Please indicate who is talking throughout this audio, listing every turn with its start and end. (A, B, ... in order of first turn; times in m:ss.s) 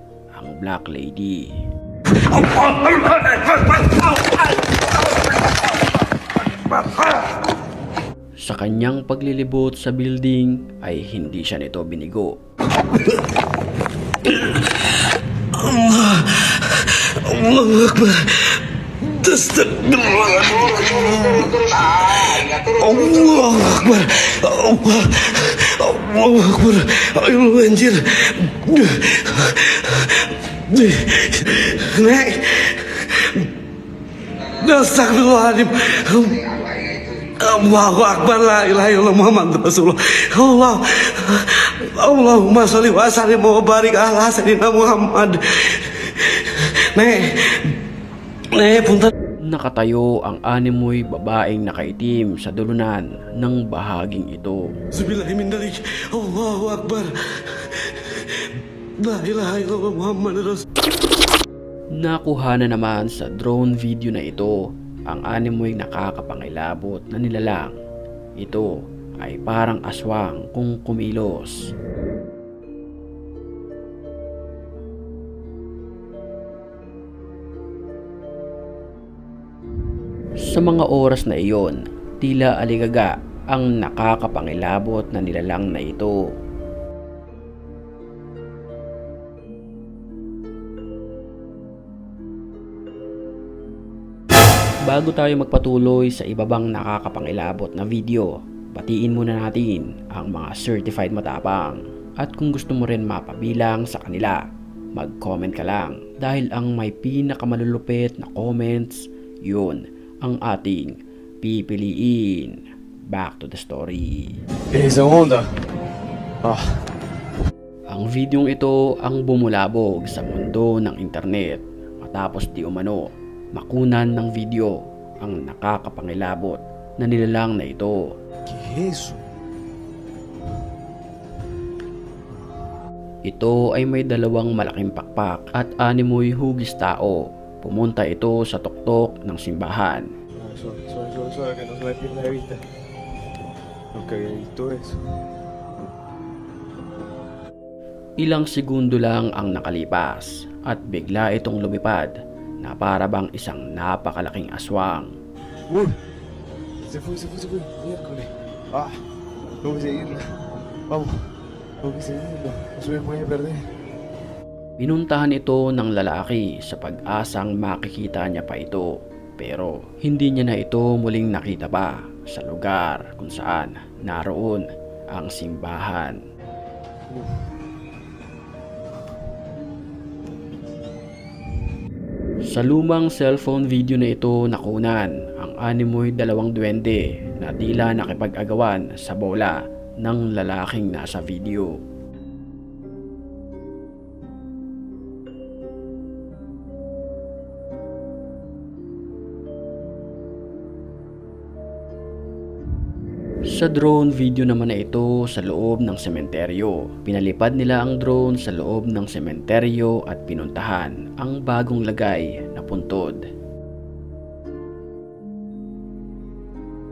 0:00.4-0:01.5 A
0:02.2-0:04.7 B
0:06.6-0:07.2 B
0:08.4-0:12.4 A
0:14.2-0:14.8 B
0:15.5-0:33.5 B
0:34.3-0:47.8 B
0:48.5-0:49.1 B
0:49.5-0:54.6 A
0:54.9-1:00.6 B
1:02.0-1:07.7 A
1:08.4-1:11.7 A
1:20.5-1:26.2 A
1:34.9-1:44.4 A
1:44.9-1:54.4 A
1:54.7-1:55.6 C
1:56.4-1:56.8 C
1:57.9-2:08.0 A
2:08.5-2:09.2 C
2:13.3-2:20.1 A
2:20.4-2:22.6 C
2:23.9-2:25.2 C
2:28.2-2:35.1 A
2:35.7-2:36.0 C
2:36.9-2:39.0 C
2:39.6-2:40.4 C
2:40.9-2:43.7 C
2:44.8-2:56.2 A
3:02.5-3:11.8 A
3:23.5-3:33.2 A